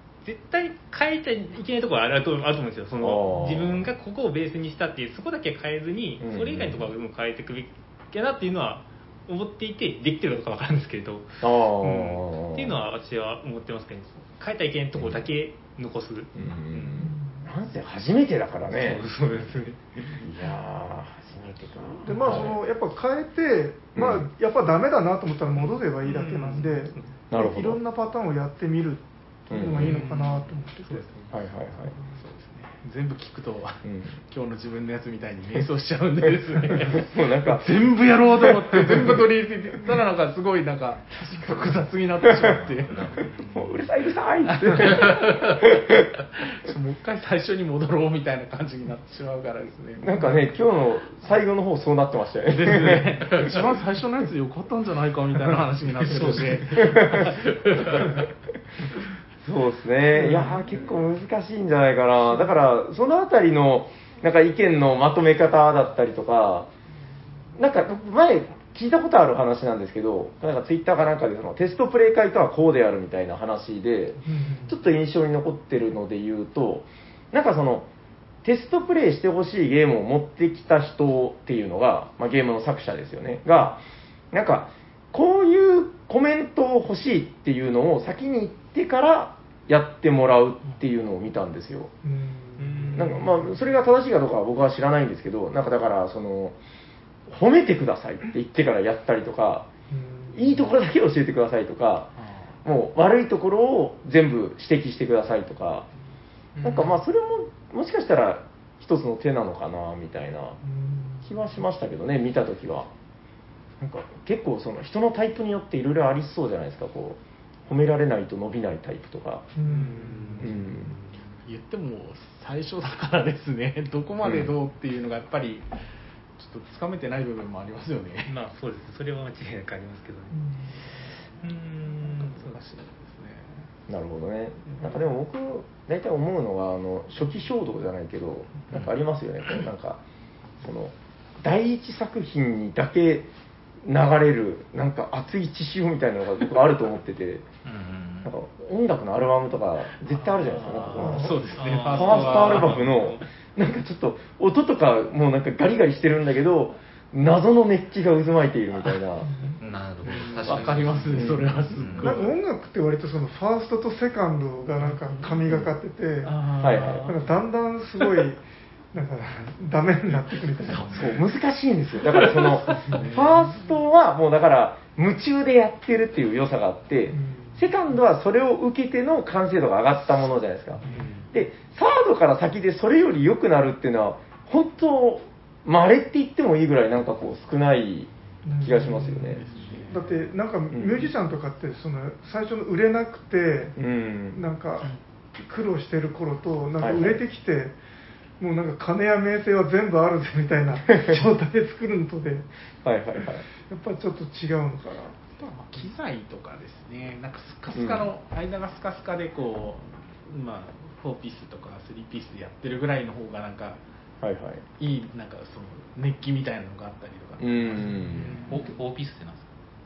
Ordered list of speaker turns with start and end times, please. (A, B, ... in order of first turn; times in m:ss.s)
0:00.2-0:17.1 A
0:03.0-0:03.9 B
0:06.2-0:06.9 B
0:11.4-0:12.8 B
0:15.0-0:15.2 B
0:16.4-0:19.1 B
0:18.7-0:20.2 A
0:20.2-0:22.6 B
0:22.0-0:31.1 C
0:24.0-0:24.3 B
0:26.0-0:27.1 A
0:27.3-0:27.8 B
0:29.5-0:30.0 B
0:29.8-0:30.4 D
0:30.0-0:30.4 A
0:31.0-0:31.2 D
0:31.3-0:31.9 B
0:32.1-0:43.7 D
0:33.8-0:34.2 B
0:36.8-0:37.8 B
0:38.4-0:39.2 B
0:42.3-0:42.6 B
0:42.8-0:43.3 E
0:43.3-0:46.1 B
0:44.5-0:45.3 D
0:44.8-0:45.6 E
0:46.4-0:50.2 D
0:50.0-0:53.4 B
0:52.5-0:58.0 D
0:56.8-0:57.4 B
0:57.1-0:58.2 E
0:59.4-1:06.7 B
1:07.6-1:17.9 B
1:14.2-1:14.8 C
1:18.4-1:31.9 B
1:32.0-1:33.4 C
1:32.6-1:33.2 A
1:32.9-1:36.6 B
1:37.3-1:39.7 B
1:39.9-1:40.5 C
1:40.3-1:42.1 B
1:42.2-1:42.5 D
1:42.6-1:45.9 B
1:46.6-1:50.6 B
1:50.6-1:51.3 C
1:51.2-1:52.9 B
1:53.8-1:59.5 B
1:59.6-2:00.5 C
1:59.7-2:01.2 A
1:59.7-2:00.6 D
2:00.4-2:00.9 B
2:01.4-2:05.7 D
2:04.2-2:04.5 B
2:06.4-2:08.3 D
2:08.2-2:10.5 A
2:11.4-2:12.6 A
2:12.0-2:13.7 D
2:13.9-2:20.0 B
2:20.6-2:23.3 B
2:23.8-2:27.4 B
2:27.6-2:28.3 E
2:28.2-2:31.4 B
2:30.2-2:32.9 D
2:31.0-2:31.4 C
2:31.6-2:33.2 A
2:31.9-2:39.3 B
2:39.2-2:39.6 C
2:39.6-2:42.2 E
2:40.0-2:42.4 D
2:41.1-2:41.5 B
2:42.0-2:46.4 C
2:44.8-2:45.7 D
2:46.2-2:47.3 D
2:46.6-2:47.1 B
2:47.0-2:48.4 C
2:48.9-2:51.1 C
2:50.9-3:09.4 B
2:52.8-2:53.4 D
2:57.1-2:57.6 C
3:00.8-3:01.3 D
3:08.4-3:13.8 C
3:09.3-3:10.2 D
3:10.7-3:11.1 B
3:13.8-3:14.4 B
3:14.3-3:17.8 C
3:16.8-3:17.2 B
3:18.4-3:22.5 C
3:22.8-3:23.4 B
3:23.7-3:25.2 C
3:25.4-3:33.8 D
3:27.7-3:28.1 B
3:34.2-3:34.6 B
3:34.8-3:38.7 D
3:37.4-3:38.4 B
3:38.5-3:39.5 E